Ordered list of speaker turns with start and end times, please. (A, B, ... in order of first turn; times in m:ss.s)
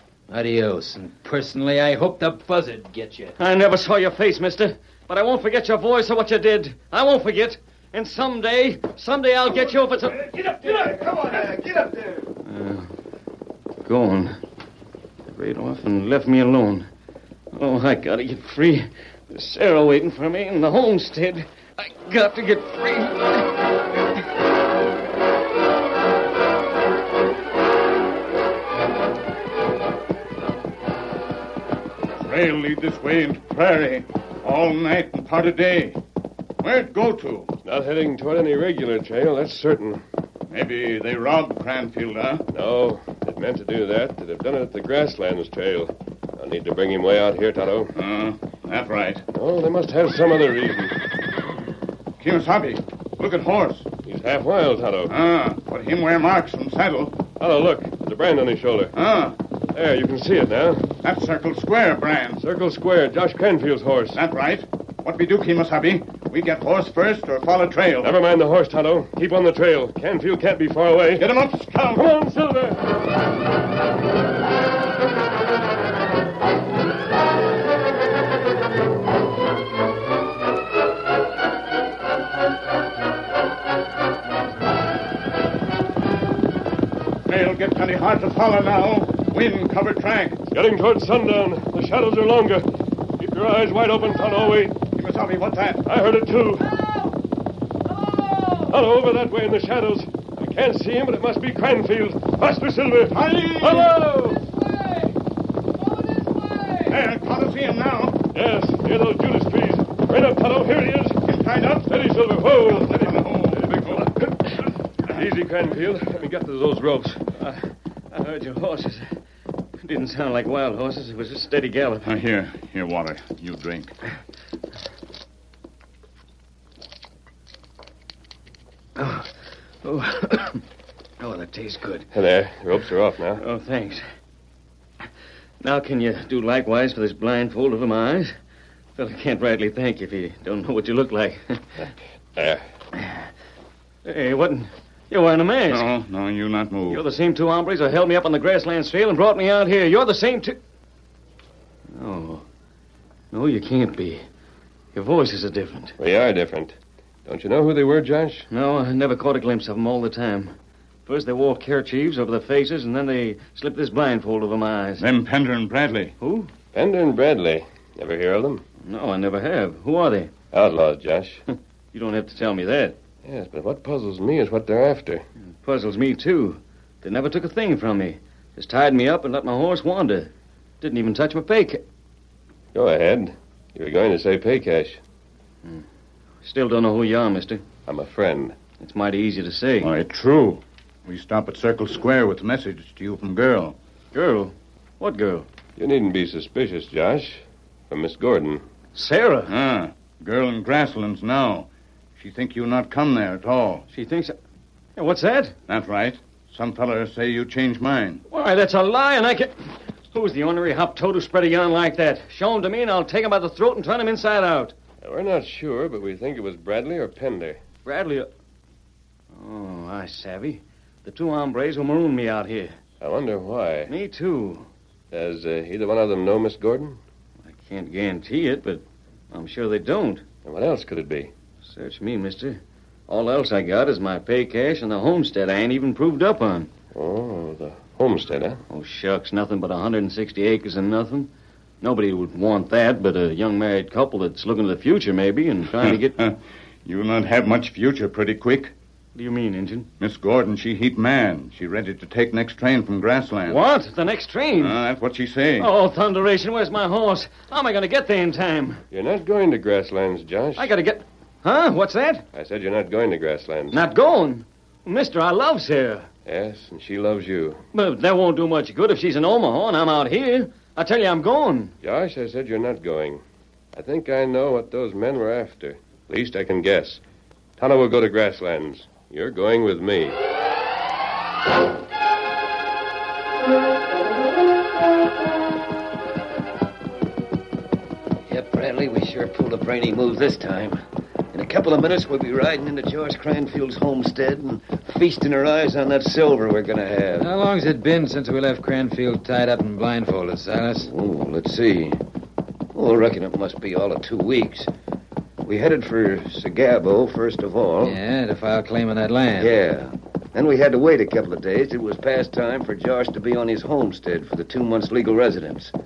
0:00.3-0:03.4 A
0:03.4-0:12.9 B
0:13.8-0:14.4 B
0:15.3-0:16.9 B
0:17.5-0:23.5 B
0:32.2-0:36.0 C
0:36.6-0:37.5 C
0:37.6-0:40.0 D
0:40.5-0:42.4 C
0:42.5-0:48.0 D
0:48.0-0:49.2 C
0:49.3-0:51.0 D
0:52.2-0:53.9 C
0:54.0-0:55.2 D
0:55.1-0:57.2 C
0:57.4-0:59.0 D
0:58.9-0:59.4 C
0:59.7-1:00.9 D
1:01.0-1:02.4 C
1:02.4-1:04.2 D
1:04.1-1:08.1 C
1:08.0-1:11.3 D
1:11.2-1:12.1 C
1:11.9-1:12.8 D
1:27.3-1:30.5 C
1:30.5-1:32.6 D
1:33.2-1:34.8 D
1:35.0-1:35.8 C
1:35.9-1:36.7 D
1:36.8-1:37.1 B
1:37.9-1:38.7 B
1:38.6-1:44.4 D
1:43.1-1:44.0 C
1:44.4-1:45.0 B
1:45.8-1:47.0 B
1:46.9-1:48.2 C
1:48.3-1:51.2 D
1:51.3-1:54.2 C
1:51.9-1:57.2 D
1:57.4-1:59.1 B
1:59.8-2:02.1 B
2:02.0-2:03.9 C
2:09.0-2:09.3 B
2:09.8-2:10.6 B
2:11.2-2:12.1 B
2:12.1-2:13.4 D
2:13.4-2:14.0 B
2:15.6-2:18.3 B
2:19.0-2:21.9 B
2:22.4-2:22.6 D
2:23.0-2:23.2 B
2:24.0-2:25.9 B
2:25.7-2:27.0 C
2:26.9-2:30.6 B
2:31.9-2:32.4 B
2:33.3-2:34.2 B
2:34.9-2:36.0 B
2:36.0-2:36.7 D
2:37.3-2:38.5 D
2:38.5-2:40.6 B
2:41.1-2:45.1 B
2:45.0-2:46.1 C
2:46.2-2:46.5 B
2:46.7-2:48.6 D
2:48.8-2:50.3 B
2:50.5-2:51.4 D
2:51.9-2:53.0 B
2:53.2-2:55.2 D
2:55.6-3:01.8 B
3:02.7-3:05.0 D
3:06.4-3:07.7 B
3:07.9-3:08.6 D
3:08.7-3:09.9 B
3:09.8-3:13.8 C
3:14.1-3:15.5 B
3:15.8-3:18.6 D
3:19.0-3:19.5 B
3:19.5-3:23.9 C
3:23.9-3:24.4 B
3:25.0-3:25.6 B
3:25.7-3:28.2 C
3:28.3-3:34.8 B
3:35.0-3:37.6 D
3:37.8-3:38.3 B
3:39.3-3:42.8 B
3:43.0-3:43.9 D
3:43.9-3:44.7 B
3:45.1-3:47.0 D
3:47.4-3:50.3 B
3:50.4-3:51.3 D
3:51.6-3:56.7 B
3:56.9-3:58.6 D
3:58.7-4:01.3 B
4:01.8-4:06.2 B
4:05.8-4:08.7 C
4:09.2-4:09.9 B
4:10.0-4:13.6 C
4:13.5-4:14.8 B
4:14.6-4:15.7 C
4:15.6-4:18.8 B
4:18.9-4:20.7 D
4:20.6-4:22.2 B
4:22.3-4:23.8 D
4:23.7-4:26.1 B
4:26.3-4:27.6 D
4:27.7-4:31.7 B
4:31.8-4:33.2 D
4:33.7-4:37.0 D
4:37.6-4:40.2 D
4:48.3-4:50.8 E
4:51.3-4:57.3 E
4:57.2-5:00.9 A
5:00.8-5:02.0 E
5:02.8-5:04.7 E
5:05.4-5:08.0 E
5:07.8-5:09.5 A
5:09.4-5:15.7 E